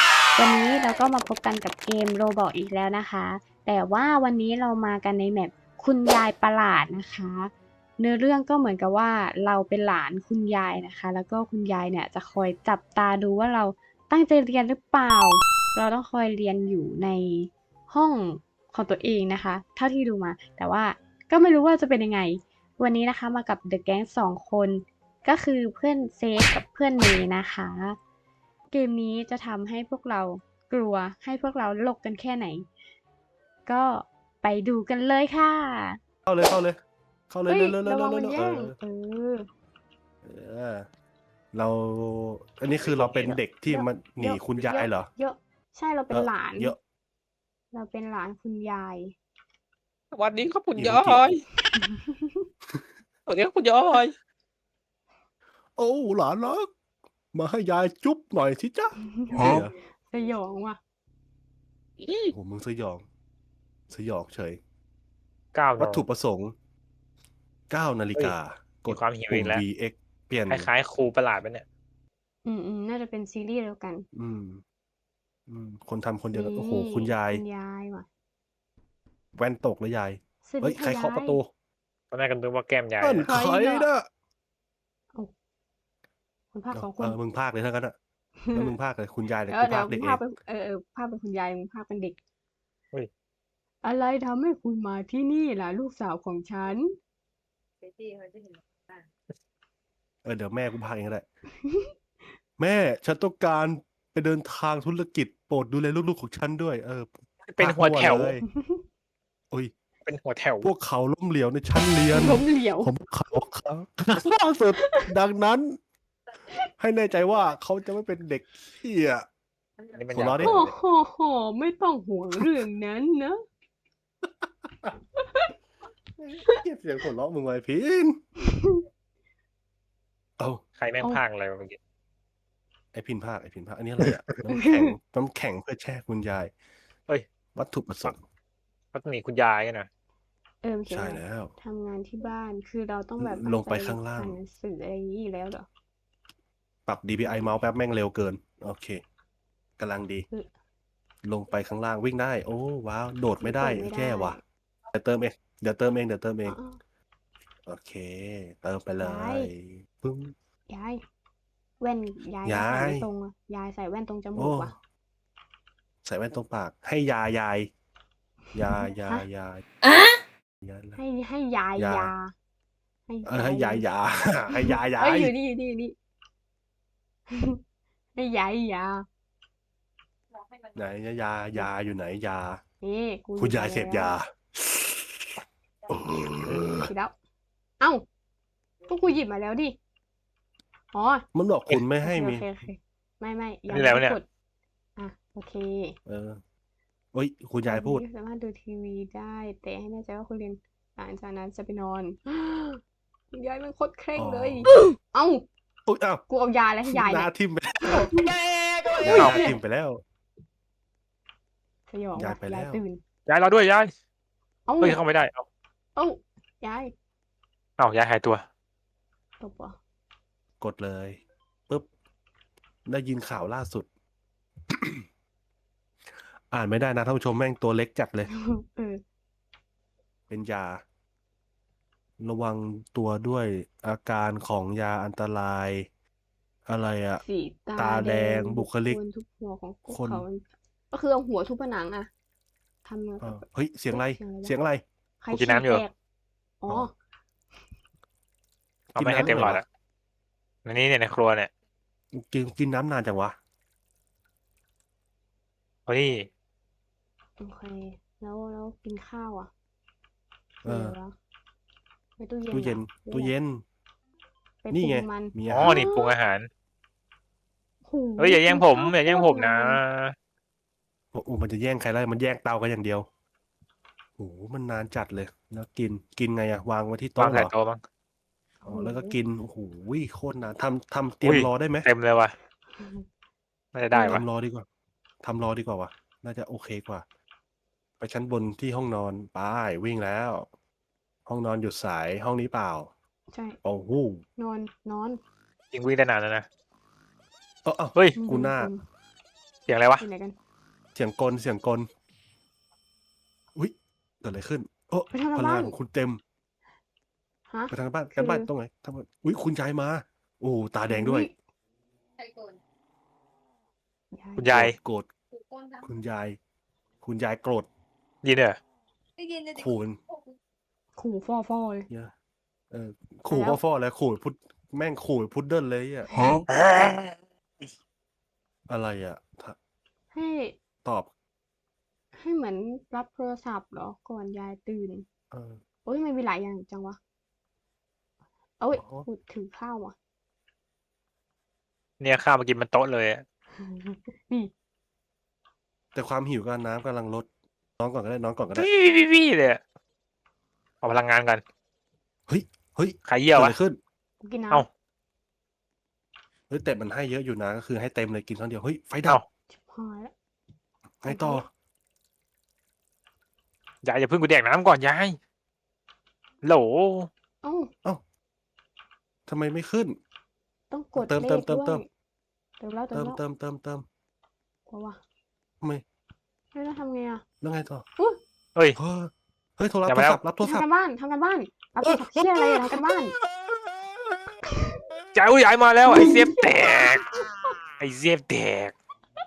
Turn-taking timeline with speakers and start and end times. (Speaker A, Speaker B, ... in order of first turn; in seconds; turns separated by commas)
Speaker A: 0.4-28.0, Speaker A: 28.7-32.7, Speaker A: 33.7-36.0, Speaker B: 36.3-38.8, Speaker A: 37.5-39.5, Speaker B: 40.2-40.9, Speaker B: 41.5-45.1, Speaker C: 42.9-43.4, Speaker A: 43.7-46.8, Speaker B: 46.1-46.8, Speaker A: 47.7-49.2, Speaker C: 50.1-51.4, Speaker B: 50.7-51.4, Speaker A: 51.7-52.5, Speaker C: 53.3-54.1, Speaker B: 55.8-56.7, Speaker B: 57.3-59.7, Speaker A: 59.0-60.8, Speaker C: 62.0-62.3, Speaker B: 62.3-63.0, Speaker B: 63.9-64.6, Speaker C: 65.5-66.0, Speaker B: 65.8-66.5, Speaker B: 67.7-70.7, Speaker C: 68.9-69.6, Speaker C: 70.5-71.7, Speaker A: 72.5-74.1, Speaker B: 74.1-74.6, Speaker B: 75.5-77.4, Speaker A: 76.3-78.1, Speaker B: 79.3-81.5, Speaker A: 80.5-81.4, Speaker C: 82.1-83.3, Speaker B: 83.0-84.1, Speaker A: 83.3-83.9, Speaker A: 86.5-87.2, Speaker B: 86.7-88.0, Speaker A: 88.4-88.7, Speaker B: 88.5-90.2, Speaker A: 89.5-92.2, Speaker A: 93.8-96.9, Speaker B: 100.2-101.2, Speaker A: 101.6-101.9, Speaker B: 102.6-108.5, Speaker C: 107.5-108.3, Speaker A: 108.5-108.8, Speaker C: 110.1-110.7, Speaker B: 110.6-115.8, Speaker A: 112.1-112.9, Speaker A: 114.8-115.1, Speaker B: 116.8-119.3, Speaker C: 119.9-120.7, Speaker B: 120.1-120.6, Speaker A: 120.4-123.4, Speaker B: 124.2-124.9, Speaker A: 125.2-125.5, Speaker B: 126.2-128.2, Speaker A: 128.4-128.8, Speaker C: 130.8-131.8, Speaker B: 132.9-136.5, Speaker A: 134.5-135.0, Speaker B: 137.6-138.2, Speaker C: 138.9-139.9, Speaker A: 140.6-145.7, Speaker B: 140.9-141.5, Speaker B: 143.2-144.4, Speaker B: 146.9-149.0, Speaker B: 149.8-150.3, Speaker B: 151.2-156.6, Speaker A: 153.4-154.4, Speaker A: 156.4-156.8, Speaker B: 157.7-160.3, Speaker A: 159.0-159.5, Speaker A: 160.7-161.0, Speaker A: 161.8-164.8, Speaker B: 162.4-163.1, Speaker B: 164.4-164.7, Speaker B: 166.0-167.7, Speaker B: 168.5-169.6, Speaker A: 168.6-169.2, Speaker B: 170.6-171.0, Speaker A: 171.0-172.3, Speaker B: 171.8-172.1, Speaker A: 173.1-173.9, Speaker B: 173.3-175.3, Speaker A: 174.5-176.0, Speaker A: 177.3-177.6, Speaker A: 178.2-179.1, Speaker B: 180.7-182.6, Speaker A: 182.8-184.2, Speaker B: 183.4-186.9, Speaker A: 186.8-187.1, Speaker A: 187.8-188.1, Speaker A: 188.9-189.8, Speaker A: 190.9-191.3, Speaker B: 191.3-192.4, Speaker A: 192.0-194.2, Speaker C: 193.7-194.2, Speaker A: 195.0-196.0, Speaker B: 196.1-196.4, Speaker B: 197.1-198.0, Speaker A: 197.7-202.8, Speaker A: 203.3-205.4, Speaker B: 204.2-204.7, Speaker B: 205.9-206.2, Speaker A: 206.3-207.3, Speaker B: 206.9-208.1, Speaker A: 207.9-208.3, Speaker A: 208.9-209.6, Speaker B: 209.0-210.0, Speaker C: 209.1-209.5, Speaker A: 211.9-213.0, Speaker B: 212.2-212.8, Speaker C: 213.3-213.9, Speaker A: 214.7-215.0, Speaker C: 214.8-215.4, Speaker A: 216.0-216.9, Speaker C: 217.8-218.5, Speaker A: 219.4-219.8, Speaker B: 220.6-221.9, Speaker B: 222.9-223.9, Speaker B: 224.7-225.1, Speaker B: 226.5-228.3, Speaker A: 228.3-229.0, Speaker B: 230.3-230.8, Speaker B: 232.2-235.9, Speaker B: 236.7-237.2, Speaker A: 237.2-242.1, Speaker B: 237.8-239.0, Speaker B: 239.9-240.2, Speaker A: 242.8-244.5, Speaker B: 243.2-244.8, Speaker A: 245.2-245.9, Speaker C: 245.3-245.8, Speaker A: 246.6-246.9, Speaker B: 248.9-249.6, Speaker C: 249.0-249.7, Speaker C: 250.7-251.5, Speaker B: 252.1-253.4, Speaker C: 255.9-256.3, Speaker A: 257.4-259.5, Speaker A: 260.6-261.1, Speaker B: 260.6-261.0, Speaker A: 262.2-263.3, Speaker B: 262.5-263.6, Speaker A: 264.6-266.1, Speaker B: 264.7-265.9, Speaker C: 265.5-266.5, Speaker A: 267.9-269.8, Speaker C: 268.2-270.1, Speaker B: 271.1-273.1, Speaker B: 274.2-277.5, Speaker C: 277.2-277.8, Speaker A: 278.6-279.2, Speaker B: 278.7-281.9, Speaker C: 281.2-282.4, Speaker A: 282.8-283.1, Speaker C: 283.7-284.2, Speaker A: 283.9-284.2, Speaker B: 283.9-284.7, Speaker B: 285.2-287.1, Speaker B: 288.0-290.5, Speaker B: 291.3-292.9, Speaker A: 293.3-293.6, Speaker B: 293.6-294.2, Speaker A: 294.4-295.2, Speaker C: 295.7-296.5, Speaker B: 297.6-298.7, Speaker A: 298.2-298.8, Speaker C: 299.7-300.0, Speaker A: 300.0-300.4, Speaker B: 300.9-301.9, Speaker B: 303.6-306.2, Speaker A: 305.1-305.8, Speaker A: 307.5-308.5, Speaker B: 307.7-311.3, Speaker A: 310.9-311.3, Speaker A: 314.1-314.6, Speaker C: 314.4-314.8, Speaker B: 314.5-315.1, Speaker B: 315.8-316.4, Speaker B: 317.0-317.7, Speaker C: 318.2-318.6, Speaker B: 319.5-320.0, Speaker A: 321.0-321.9, Speaker B: 322.7-326.1, Speaker A: 323.3-323.6, Speaker A: 326.1-326.4, Speaker C: 326.5-327.1, Speaker B: 328.7-329.6, Speaker A: 330.1-330.6, Speaker B: 330.8-331.1, Speaker A: 332.2-335.1, Speaker B: 335.3-335.6, Speaker A: 335.9-337.0, Speaker A: 338.6-339.9, Speaker B: 338.7-339.1, Speaker C: 342.0-343.2, Speaker A: 343.6-344.5, Speaker B: 345.9-347.3, Speaker B: 347.8-348.7, Speaker C: 348.6-349.6, Speaker C: 350.8-351.4, Speaker B: 352.3-353.8, Speaker C: 353.1-353.6, Speaker A: 354.2-354.7, Speaker B: 356.5-359.2, Speaker A: 359.6-360.1, Speaker B: 361.0-361.5, Speaker A: 361.1-361.4, Speaker C: 363.8-365.2, Speaker C: 366.4-367.1, Speaker A: 367.4-367.7, Speaker B: 369.3-370.0, Speaker A: 370.7-371.9, Speaker B: 371.0-371.8, Speaker A: 372.6-373.2, Speaker B: 372.9-373.9, Speaker A: 374.7-375.0, Speaker A: 376.5-377.2, Speaker B: 377.4-377.9, Speaker B: 378.8-380.7, Speaker C: 379.9-380.2, Speaker A: 380.4-383.2, Speaker B: 381.8-384.4, Speaker A: 384.5-384.8, Speaker C: 385.1-387.1, Speaker A: 385.9-387.6, Speaker C: 387.8-388.7